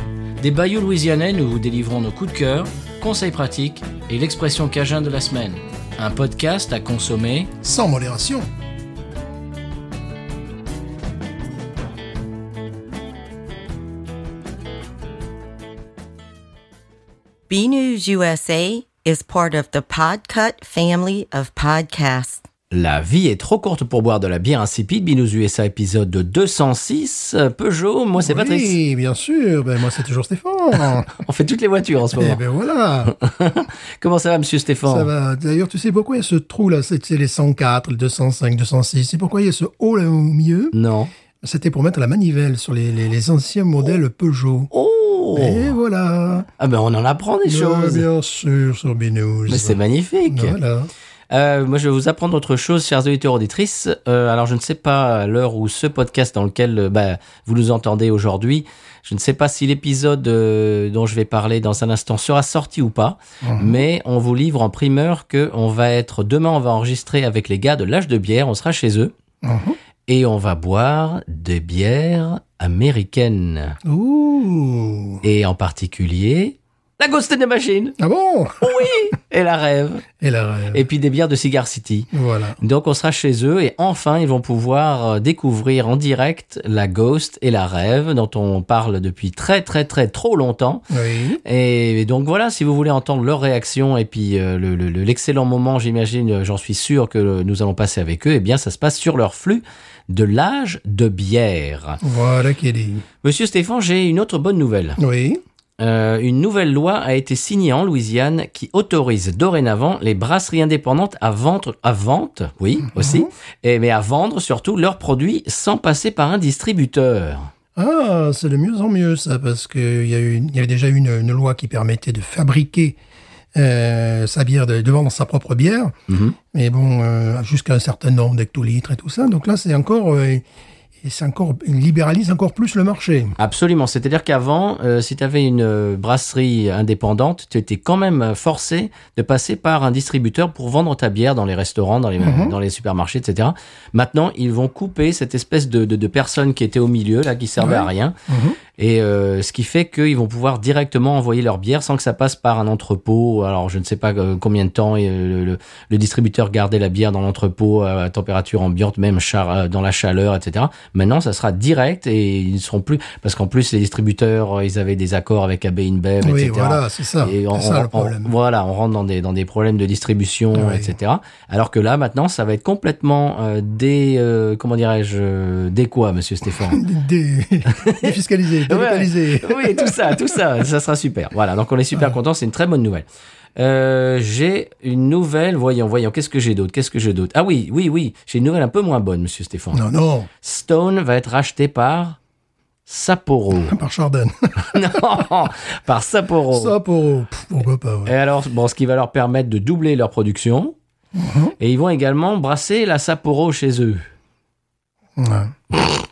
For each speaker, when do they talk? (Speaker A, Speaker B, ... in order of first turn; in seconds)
Speaker A: 0.4-7.5, 22.7-28.7, 31.1-32.4, 33.0-35.1, 40.7-41.1, 44.7-45.8, 46.6-48.1, 49.5-50.6, 51.3-69.1, 70.1-73.8, 75.2-78.0, 78.6-80.0, 80.7-82.1, 82.6-90.8, 91.4-102.0, 103.2-105.0, 105.8-117.5, 126.1-126.3, 133.4-148.2, 148.8-176.8, 177.7-189.8, 190.4-192.2, 192.8-193.7, 194.6-196.8, 198.1-200.8, 201.6-204.1
Speaker B: 7.6-8.5, 28.2-31.1, 32.1-33.1, 34.9-40.7, 41.4-44.7, 45.3-46.5, 47.4-50.9, 63.4-63.8, 69.4-69.8, 73.8-75.2, 78.0-79.0, 80.2-80.8, 82.1-82.6, 90.9-91.4, 102.0-103.0, 105.0-105.4, 112.9-113.3, 117.8-123.0, 123.5-126.0, 126.5-130.4, 131.0-133.3, 142.2-142.6, 147.6-148.6, 166.2-168.3, 170.5-170.9, 176.6-180.4, 189.7-190.3, 193.5-195.1, 196.5-198.1, 201.1-201.5, 205.2-205.6
Speaker C: 17.5-22.4